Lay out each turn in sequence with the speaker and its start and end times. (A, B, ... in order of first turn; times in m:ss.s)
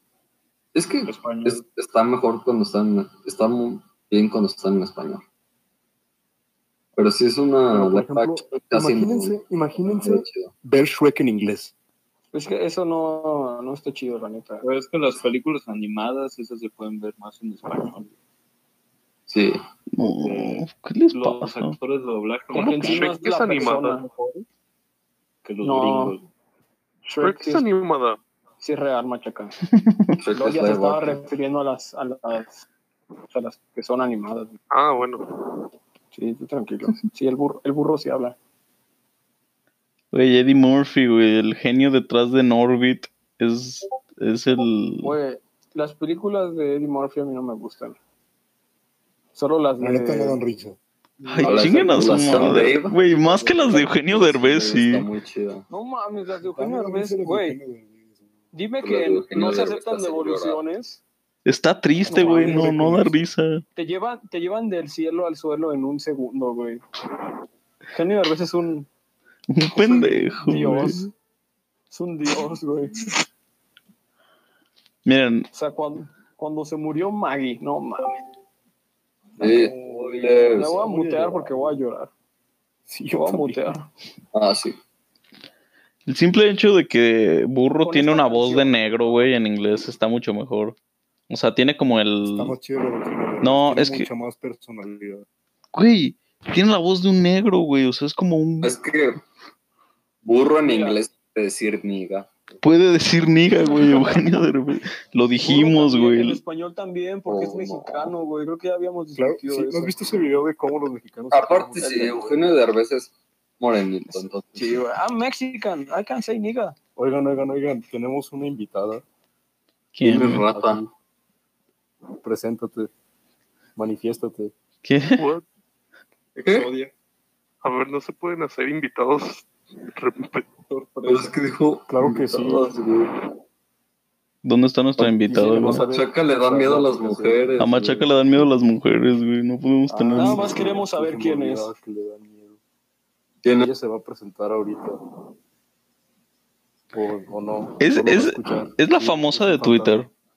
0:00.8-0:05.2 A
0:01.1-0:01.6 B
0:07.0-0:09.4 A
0:07.7-0:11.7 C
0:09.9-0:10.5 A
0:12.3-0:14.6 D
0:14.6-0:18.1 B
0:19.3-0:19.6 A
0:19.9-0:21.8 E
0:20.0-0:24.4 B
0:22.5-0:24.1 F
0:22.6-0:24.0 D
0:25.4-0:26.3 B
0:25.6-0:26.2 D
0:27.1-0:27.6 D
0:27.2-0:28.2 F
0:28.6-0:29.6 D
0:29.9-0:30.1 E
0:30.2-0:31.3 A
0:30.4-0:32.7 D
0:33.3-0:34.6 D
0:34.7-0:35.3 F
0:36.1-0:38.4 D
0:40.1-0:45.2 E
0:45.0-0:48.0 D
0:49.4-0:50.4 D
0:49.8-0:50.8 C
0:51.2-0:52.6 D
0:51.3-0:55.1 E
0:51.4-0:55.7 A
0:55.7-0:57.6 D
0:56.4-0:58.3 C
0:58.5-1:01.0 D
0:58.8-1:00.6 A
1:01.5-1:03.6 E
1:02.1-1:02.8 D
1:02.1-1:03.2 C
1:03.8-1:06.8 D
1:07.9-1:08.9 D
1:09.5-1:11.1 E
1:09.7-1:11.1 D
1:11.9-1:13.1 D
1:15.1-1:15.5 E
1:15.5-1:18.2 D
1:19.4-1:21.8 C
1:19.4-1:20.7 A
1:20.5-1:22.1 D
1:22.9-1:23.6 C
1:23.1-1:23.9 D
1:24.3-1:24.8 A
1:26.1-1:30.8 E
1:27.8-1:29.1 D
1:31.3-1:32.6 E
1:32.2-1:35.3 C
1:33.4-1:34.1 E
1:35.7-1:38.8 E
1:38.6-1:39.2 A
1:40.2-1:42.3 A
1:40.6-1:41.0 D
1:42.6-1:46.4 E
1:45.4-1:49.9 D
1:47.3-1:48.1 A
1:49.2-1:52.4 C
1:51.3-1:54.8 A
1:51.8-1:52.2 D
1:54.6-1:56.8 D
1:57.0-1:59.0 C
2:00.0-2:00.5 E
2:00.0-2:00.8 A
2:00.5-2:00.9 C
2:02.2-2:02.9 C
2:03.8-2:04.5 C
2:04.8-2:05.3 E
2:05.2-2:05.4 F
2:06.4-2:06.7 A
2:07.6-2:10.5 F
2:10.7-2:11.3 B
2:11.0-2:13.1 A
2:11.9-2:12.7 C
2:14.4-2:15.8 E
2:15.0-2:17.6 C
2:15.5-2:18.1 A
2:17.6-2:20.6 E
2:19.9-2:22.6 C
2:20.2-2:21.7 D
2:23.4-2:23.7 A
2:23.6-2:25.0 C
2:26.9-2:30.1 C
2:27.8-2:30.1 E